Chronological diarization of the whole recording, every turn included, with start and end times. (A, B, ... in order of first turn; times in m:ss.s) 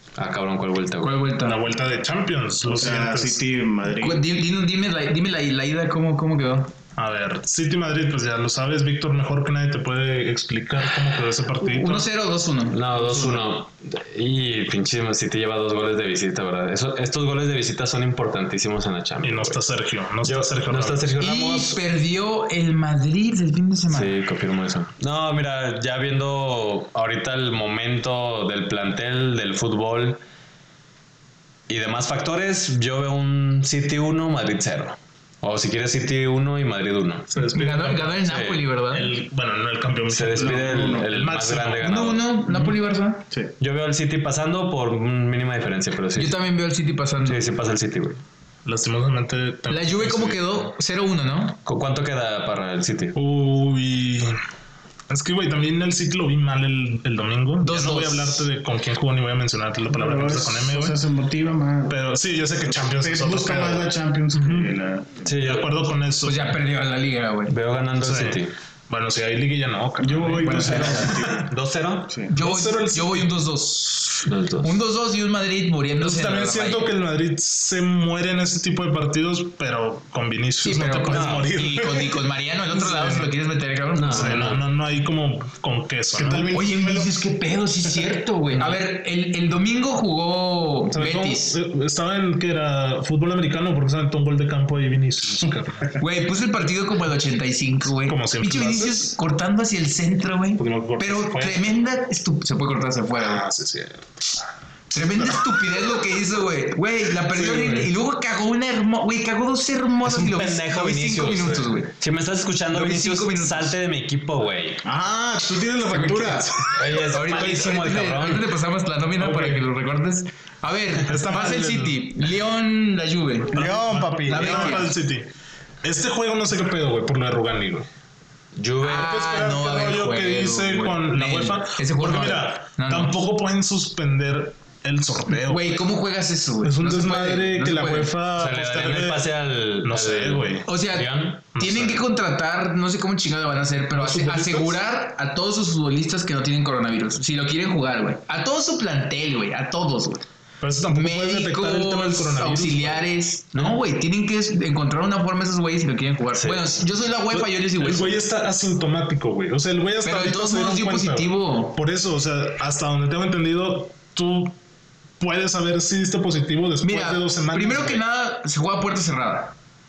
0:00.2-0:01.1 A
0:01.0-0:01.6 B
0:01.4-0:03.4 C
0:02.6-0:04.2 D
0:04.0-0:06.7 B
0:07.0-0:12.1 C
0:11.6-0:13.2 B
0:12.7-0:19.6 A
0:19.2-0:21.1 C
0:20.2-0:21.8 A
0:21.2-0:24.2 B
0:23.9-0:30.2 A
0:31.7-0:37.3 A
0:37.3-0:38.2 C
0:37.5-0:39.1 B
0:38.2-0:38.6 A
0:38.9-0:41.9 C
0:40.1-0:42.3 A
0:40.4-0:41.2 D
0:41.8-0:43.2 B
0:43.6-0:46.4 A
0:46.2-0:47.4 B
0:47.2-0:48.2 A
0:48.6-0:50.7 C
0:49.7-0:51.6 B
0:51.6-0:53.2 A
0:53.1-0:54.4 C
0:55.1-1:01.0 C
0:57.6-0:58.5 B
0:59.9-1:02.0 D
1:01.9-1:04.7 C
1:02.8-1:05.3 D
1:05.2-1:05.7 A
1:05.4-1:06.5 C
1:06.2-1:07.5 B
1:07.5-1:08.5 A
1:08.0-1:11.4 C
1:10.0-1:11.5 D
1:10.5-1:11.0 B
1:10.5-1:12.2 A
1:12.3-1:16.9 B
1:12.3-1:13.3 C
1:14.2-1:14.8 A
1:16.0-1:23.3 C
1:20.6-1:24.5 B
1:21.1-1:21.5 A
1:23.9-1:24.6 A
1:24.0-1:26.5 C
1:26.1-1:27.2 D
1:26.5-1:31.6 B
1:27.9-1:28.1 D
1:28.5-1:28.8 A
1:30.9-1:35.9 C
1:36.0-1:43.4 B
1:38.0-1:39.1 C
1:40.6-1:41.7 C
1:43.2-1:44.2 C
1:44.9-1:51.9 B
1:47.2-1:47.9 C
1:50.0-1:54.8 A
1:52.7-1:53.7 B
1:54.8-1:56.6 D
1:55.9-2:03.7 B
1:56.7-1:58.5 A
1:59.2-1:59.6 C
2:01.0-2:02.0 C
2:03.5-2:04.8 D
2:03.5-2:05.3 C
2:04.2-2:04.9 B
2:05.8-2:07.9 C
2:08.5-2:09.1 A
2:08.8-2:13.2 B
2:09.0-2:15.8 C
2:15.4-2:18.1 B
2:16.6-2:19.3 C
2:18.4-2:21.8 A
2:19.8-2:20.6 C
2:20.6-2:30.2 B
2:21.5-2:22.0 C
2:23.9-2:24.8 C
2:30.6-2:33.0 C
2:30.9-2:38.2 B
2:36.3-2:36.8 A
2:37.3-2:44.5 C
2:40.0-2:41.8 B
2:45.2-2:48.0 C
2:46.8-2:49.5 B